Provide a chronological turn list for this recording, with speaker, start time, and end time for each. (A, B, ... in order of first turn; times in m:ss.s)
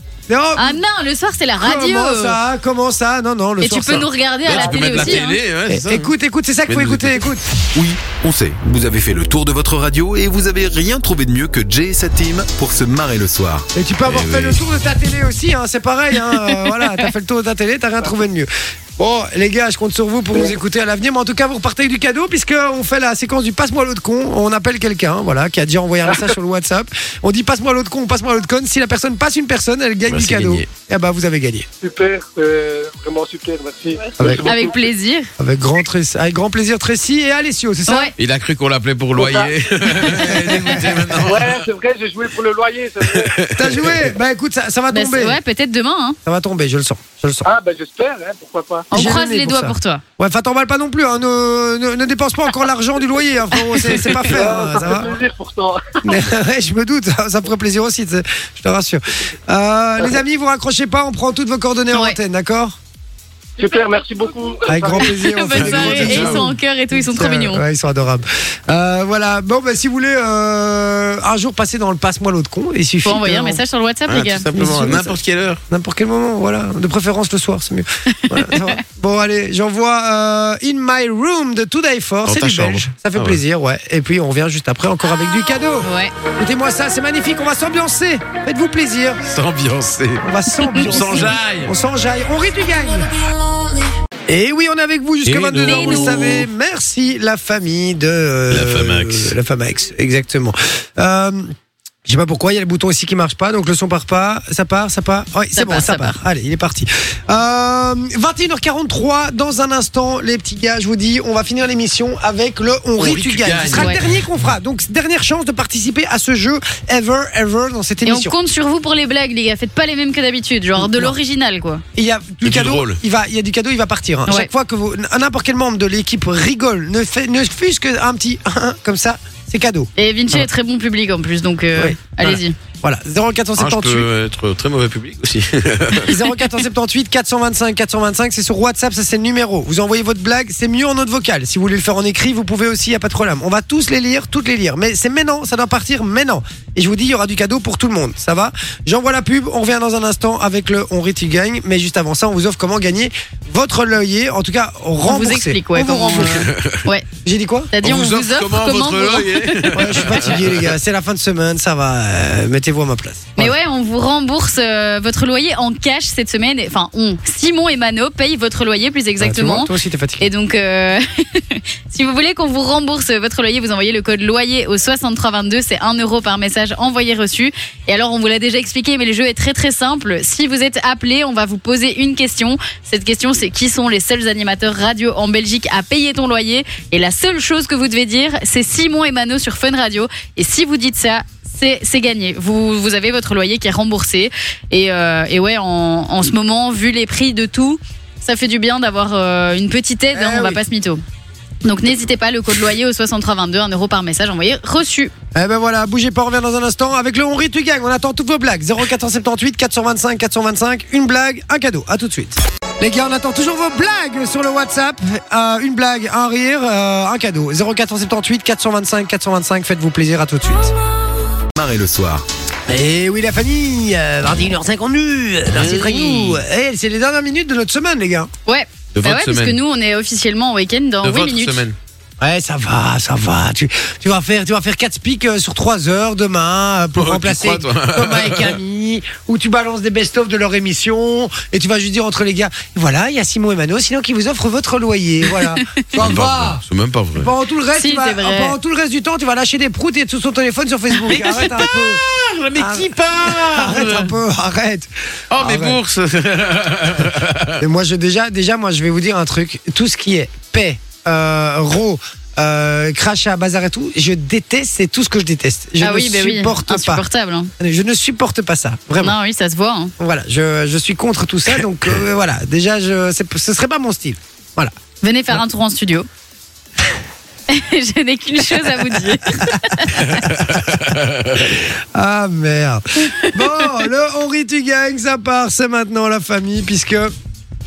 0:00.3-0:00.8 A
0:00.6-0:02.4 B
0:01.6-0:04.1 A
0:03.6-0:05.4 B
0:04.4-0:06.1 C
0:05.7-0:07.5 A
0:06.7-0:07.3 C
0:07.7-0:13.7 D
0:13.7-0:31.7 A
0:14.1-0:14.6 C
0:30.1-0:30.7 C
0:31.8-0:34.8 E
0:34.2-0:34.7 A
0:34.4-0:35.3 B
0:35.4-0:38.1 A
0:37.9-0:38.1 B
0:38.2-0:41.6 C
0:39.2-0:39.6 E
0:40.0-0:41.1 A
0:41.2-0:43.4 E
0:43.2-0:44.1 C
0:43.5-0:45.4 A
0:44.9-0:46.2 B
0:46.2-0:47.5 A
0:47.4-0:48.9 E
0:48.9-0:50.0 B
0:48.9-0:55.1 A
0:53.6-0:54.0 B
0:54.2-0:56.0 E
0:56.0-1:02.8 A
1:03.6-1:05.3 E
1:04.7-1:13.6 A
1:05.0-1:07.6 B
1:05.5-1:06.5 C
1:13.0-1:14.5 B
1:14.1-1:15.6 C
1:14.5-1:15.2 A
1:15.7-1:29.2 A
1:18.2-1:18.8 B
1:22.3-1:23.4 C
1:25.8-1:26.1 B
1:29.3-1:31.7 C
1:30.2-1:33.1 A
1:34.3-1:41.5 A
1:35.2-1:36.4 C
1:35.6-1:36.3 B
1:38.5-1:39.3 C
1:42.0-1:58.4 A
1:45.6-1:46.2 B
1:53.0-1:54.2 C
1:53.7-1:54.0 B
1:58.1-2:01.8 B
2:00.8-2:01.2 A
2:02.0-2:10.5 A
2:02.4-2:03.0 C
2:10.0-2:12.6 B
2:11.8-2:14.1 A
2:13.6-2:16.1 C
2:16.0-2:36.5 A
2:35.0-2:37.1 B
2:36.4-2:36.8 C
2:37.2-2:37.7 A
2:37.7-2:40.2 B
2:37.8-2:40.7 C
2:39.7-2:43.5 A
2:43.4-3:21.0 B
2:49.2-2:50.3 A
3:20.1-3:20.6 A
3:21.6-3:25.1 B
3:25.3-3:40.7 A
3:41.6-3:42.2 D
3:42.7-3:48.3 A
3:45.5-3:46.4 C
3:48.5-3:51.6 B
3:49.0-3:49.6 C
3:51.0-3:51.8 C
3:52.2-4:06.6 A
3:57.0-3:58.6 C
4:06.0-4:07.3 C
4:07.2-4:12.0 A
4:07.8-4:08.6 B
4:11.2-4:14.1 C
4:12.6-4:15.8 A
4:15.3-4:17.6 C
4:17.6-4:27.0 A
4:25.8-4:27.5 B
4:27.6-4:29.2 A
4:29.0-4:29.9 B
4:30.0-4:34.7 A
4:35.0-4:36.1 B
4:37.5-4:40.2 B
4:39.3-4:40.8 A
4:40.3-4:41.3 C
4:41.3-4:47.1 A
4:43.2-4:43.6 B